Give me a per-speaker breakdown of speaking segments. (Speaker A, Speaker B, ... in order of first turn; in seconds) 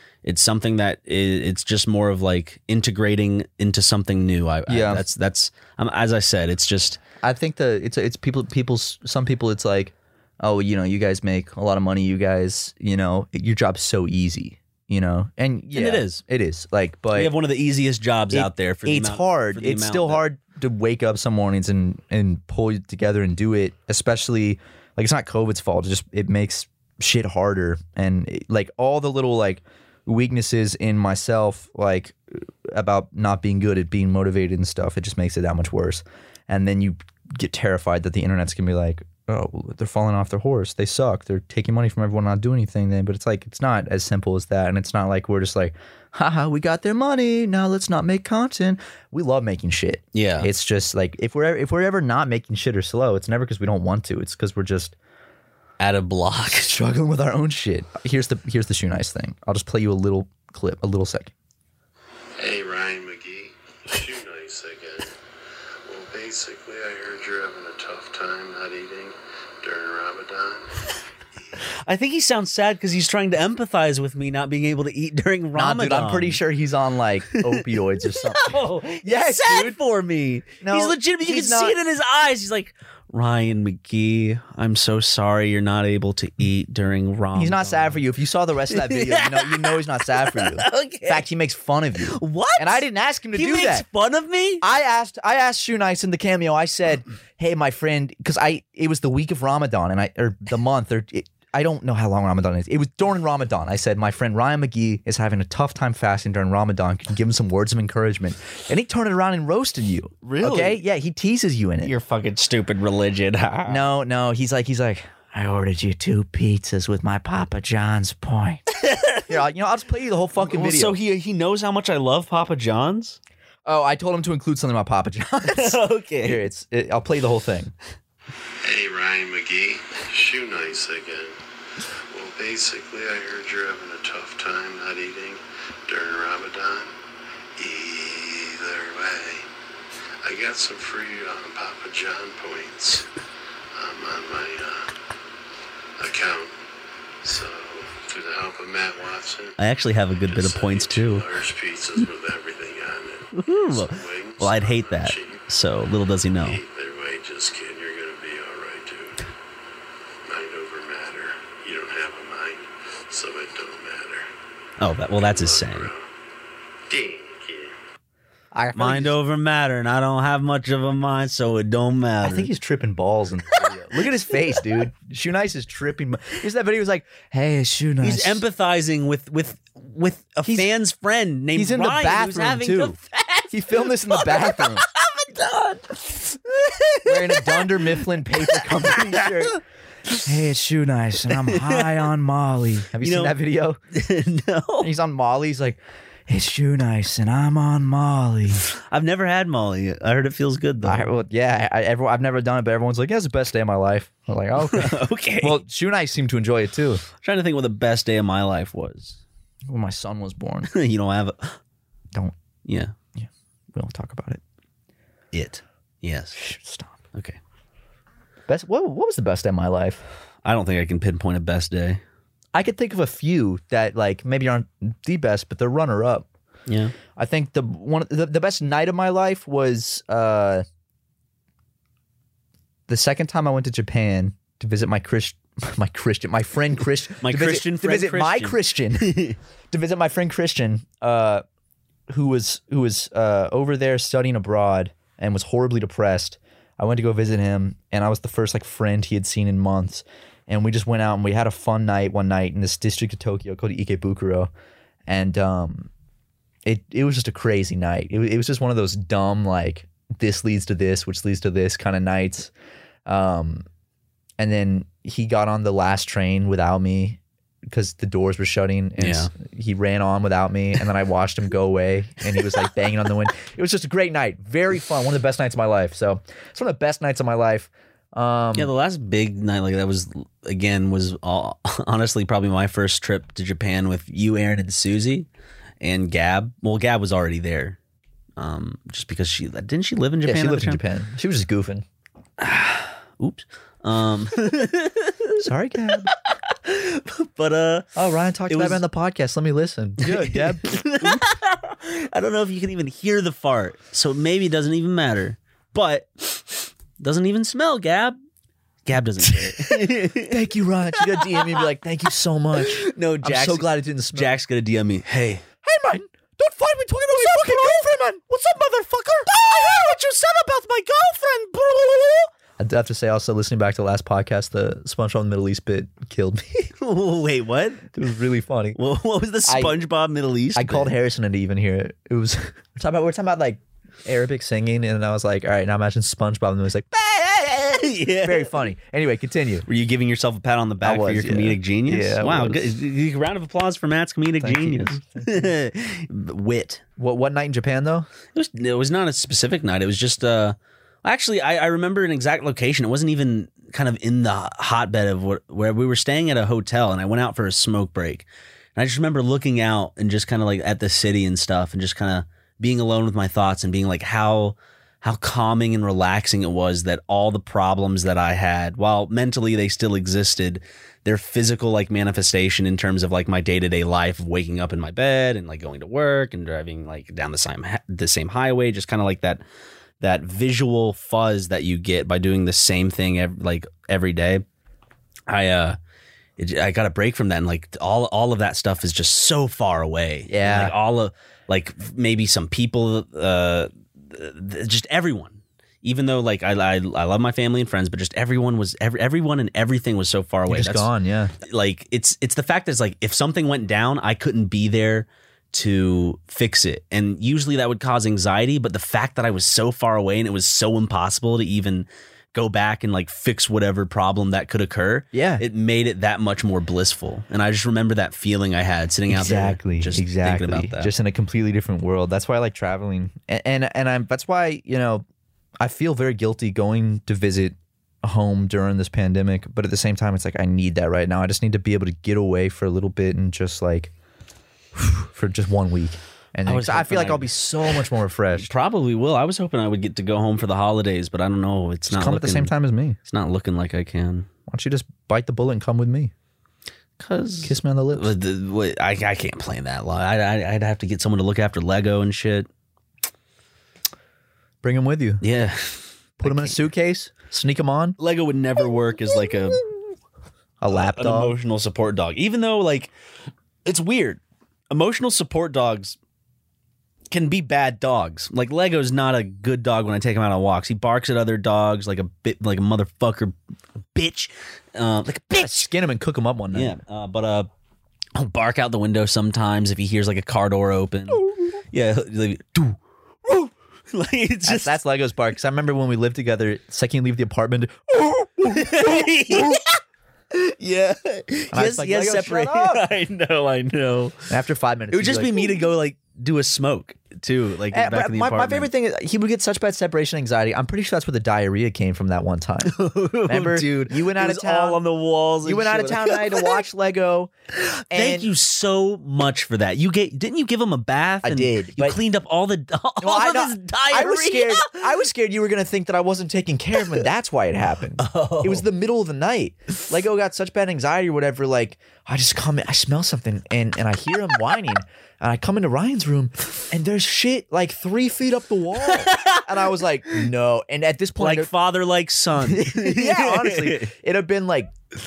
Speaker A: 0.2-7.0, 15.7-16.2, 17.1-20.2, 50.1-50.5, 55.8-56.7, 71.8-76.4, 77.3-88.0, 88.7-91.2, 92.1-94.6, 110.2-110.8, 111.8-113.9, 118.7-119.3, 120.4-123.2, 125.5-126.4, 149.6-151.3, 153.3-156.6, 164.8-165.9, 168.7-172.5, 178.0-189.6, 191.3-192.0, 193.0-193.4, 193.9-194.9, 198.7-201.1, 204.7-205.6, 207.2-209.2, 210.7-211.6, 212.6-212.9, 215.3-216.4, 220.4-222.0, 226.7-226.9, 237.2-239.4, 269.0-269.3, 278.5-285.3, 285.8-287.8, 288.4-290.8, 292.4-297.9, 298.5-298.8, 300.0-308.2, 308.8-310.4, 311.2-311.6, 312.5-315.4, 326.8-327.9, 328.8-330.9, 337.2-338.6, 339.7-346.8, 348.3-379.4, 380.0-384.4, 385.3-385.8, 386.4-400.9, 401.4-420.9, 436.4-437.3, 438.3-442.5, 443.0-444.3, 447.0-452.5, 455.2-456.7, 458.0-459.6, 460.7-462.9, 463.6-466.0, 467.1-473.3, 473.9-475.7, 476.5-477.5, 478.1-484.8, 488.5-489.8, 490.3-494.3, 494.9-498.7, 502.6-506.5, 507.6-514.9, 518.0-518.6, 528.8-529.5, 531.2-533.9
Speaker B: 4.7-5.0, 7.2-17.3, 18.3-55.0, 56.5-61.3, 75.5-79.8, 80.6-81.8, 87.3-93.8, 94.6-111.9, 113.7-118.6, 119.3-121.0, 123.6-127.7, 168.5-169.1, 172.2-178.4, 181.5-183.0, 183.5-184.8, 187.0-189.6, 190.2-193.8, 194.8-198.6, 200.8-207.0, 209.7-210.7, 213.2-214.4, 216.3-217.0, 218.5-220.0, 222.5-226.3, 227.2-230.6, 232.9-239.2, 239.7-241.4, 242.1-254.5, 255.1-255.9, 256.6-262.5, 263.1-263.6, 264.4-278.7, 290.2-291.8, 295.4-296.1, 297.9-301.2, 309.2-314.3, 315.6-326.7, 327.9-328.8, 329.4-329.8, 330.5-337.2, 338.2-339.6, 340.8-342.7, 344.4-345.5, 347.0-348.1, 390.3-390.7, 400.5-401.3, 415.1-415.4, 419.1-425.1, 425.6-433.9, 434.8-438.5, 441.9-443.0, 444.5-446.1, 447.4-448.1, 454.6-455.2, 456.2-458.0, 460.6-461.3, 475.3-476.7, 484.4-489.6, 491.5-492.8, 494.3-495.6, 497.7-502.7, 503.2-504.8, 505.4-507.3, 507.9-508.3, 511.2-512.0, 513.0-531.5, 532.4-534.7
Speaker C: 62.4-65.1, 65.8-70.8, 128.6-131.3, 132.1-136.9, 137.6-139.5, 140.2-143.1, 143.7-144.9, 146.0-146.5, 147.2-149.6, 150.2-155.5, 156.4-159.3, 160.2-164.3, 165.1-166.1, 166.9-167.8